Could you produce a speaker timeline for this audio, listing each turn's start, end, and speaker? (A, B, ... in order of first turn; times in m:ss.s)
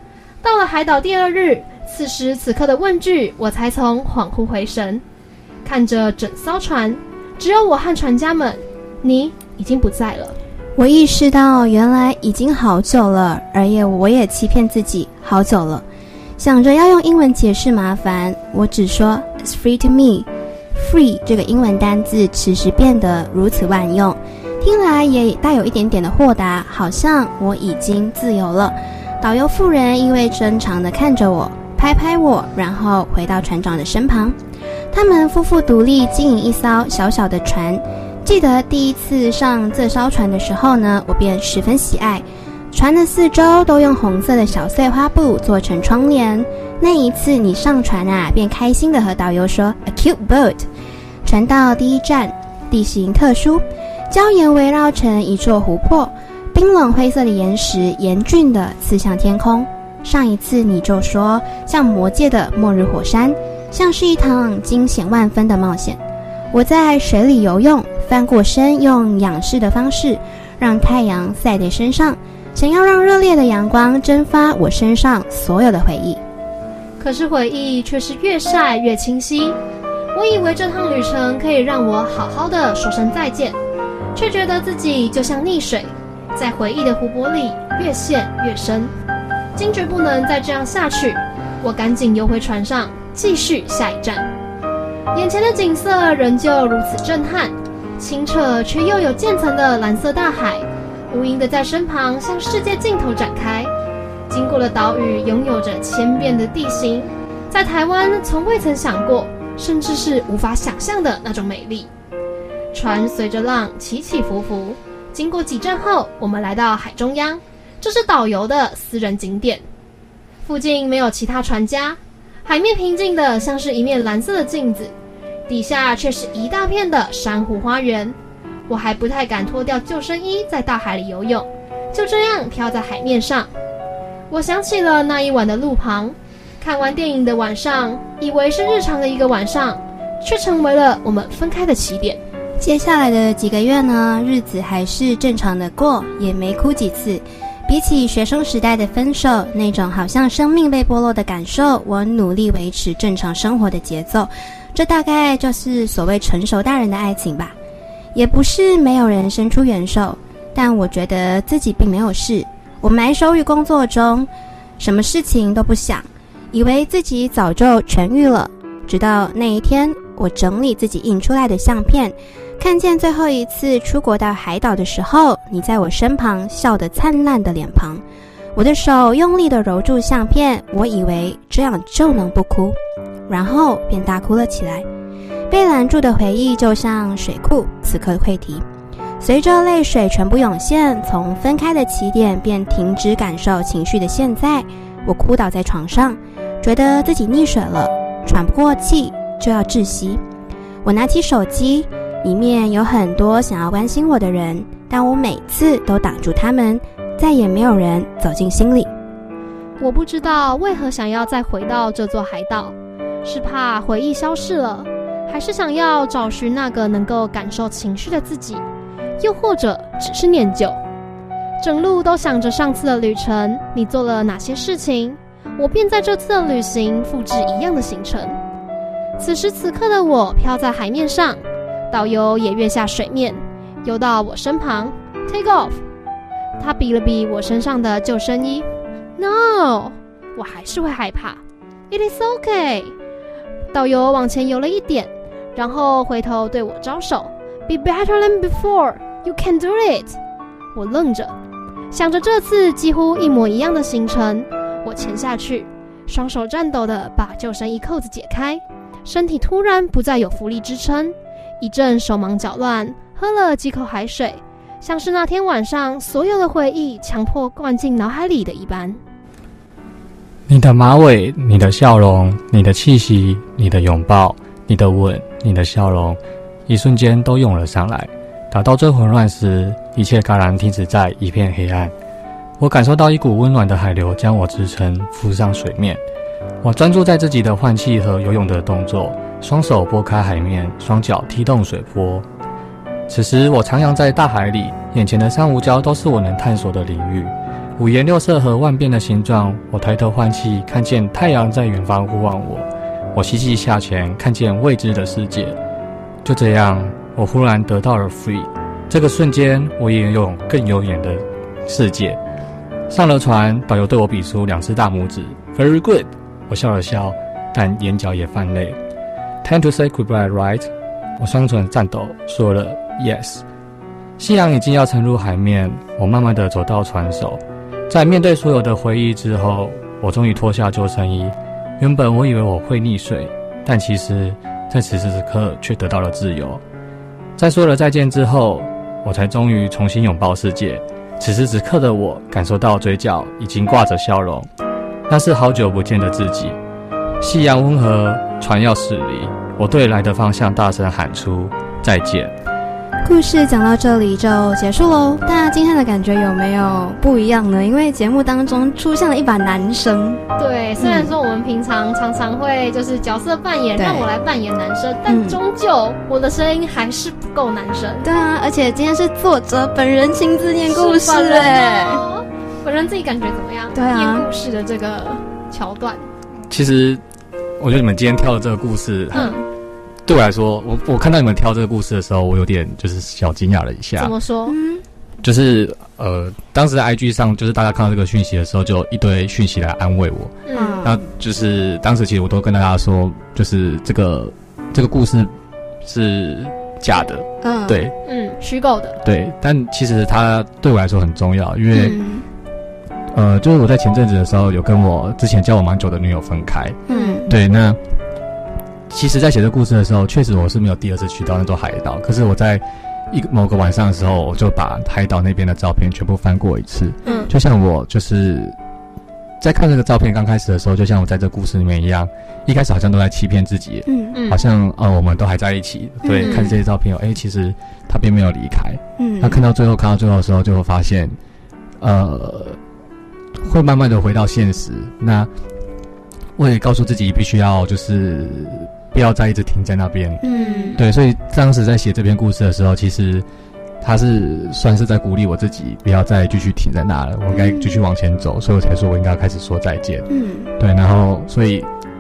0:00.4-0:05.0 A
0:05.6-0:10.4 A
0:10.8-0:15.8 B
0:16.4-0:34.4 B
0:34.9-0:50.7 B
0:51.2-1:06.0 B
1:06.5-1:16.2 B
1:17.0-1:19.6 A
1:20.1-1:23.6 A
1:24.1-1:28.9 A
1:29.6-1:34.3 A
1:35.1-1:43.7 A
1:44.3-1:51.9 A
1:52.7-1:59.6 A
2:00.4-2:04.9 A
2:05.5-2:08.2 A
2:08.7-2:13.5 A
2:14.3-2:22.2 A
2:22.6-2:37.6 B
2:38.1-2:58.0 B
2:58.5-3:04.8 B
3:05.5-3:08.6 B
3:09.2-3:20.2 B
3:20.8-3:28.9 B
3:29.8-3:38.6 A
3:39.2-3:40.8 A
3:41.6-3:48.4 A
3:49.2-3:55.8 A
3:56.6-4:02.9 A
4:03.7-4:10.2 A
4:10.7-4:11.3 A
4:11.9-4:29.0 A
4:30.5-4:41.9 C
4:42.6-4:46.0 C
4:46.6-4:52.2 C
4:53.1-5:05.6 C
5:06.2-5:12.2 C
5:12.9-5:18.8 C
5:19.4-5:23.4 C
5:24.2-5:36.6 C
5:37.4-5:44.5 C
5:45.1-5:46.6 C
5:47.2-5:52.3 C
5:53.0-6:00.2 B
6:00.4-6:08.0 A
6:00.8-6:01.1 B
6:03.8-6:04.1 B
6:05.1-6:05.4 B
6:08.0-6:12.0 B
6:10.7-6:16.0 A
6:13.7-6:14.3 B
6:16.5-6:17.0 C
6:17.6-6:19.3 C
6:19.1-6:19.4 B
6:19.1-6:19.4 A
6:20.0-6:24.1 C
6:24.0-6:24.6 A
6:24.5-6:24.8 B
6:25.2-6:35.3 C
6:30.5-6:30.8 A
6:30.5-6:31.0 B
6:35.8-6:37.9 C
6:37.4-6:37.8 B
6:38.0-6:39.0 A
6:39.0-6:42.0 C
6:41.7-6:42.2 B
6:43.1-6:47.8 C
6:46.9-6:47.3 B
6:46.9-6:47.2 A
6:48.9-6:58.6 C
6:57.0-6:57.3 A
6:59.4-7:11.2 C
7:03.9-7:04.2 B
7:04.1-7:04.4 A
7:06.0-7:06.5 B
7:06.2-7:06.5 A
7:09.0-7:09.4 B
7:11.8-7:12.6 C
7:13.4-7:15.3 C
7:16.4-7:20.2 C
7:20.2-7:20.8 B
7:20.2-7:20.8 A
7:20.8-7:23.2 C
7:23.8-7:30.1 C
7:27.3-7:27.8 B
7:30.1-7:30.5 B
7:30.6-7:31.7 C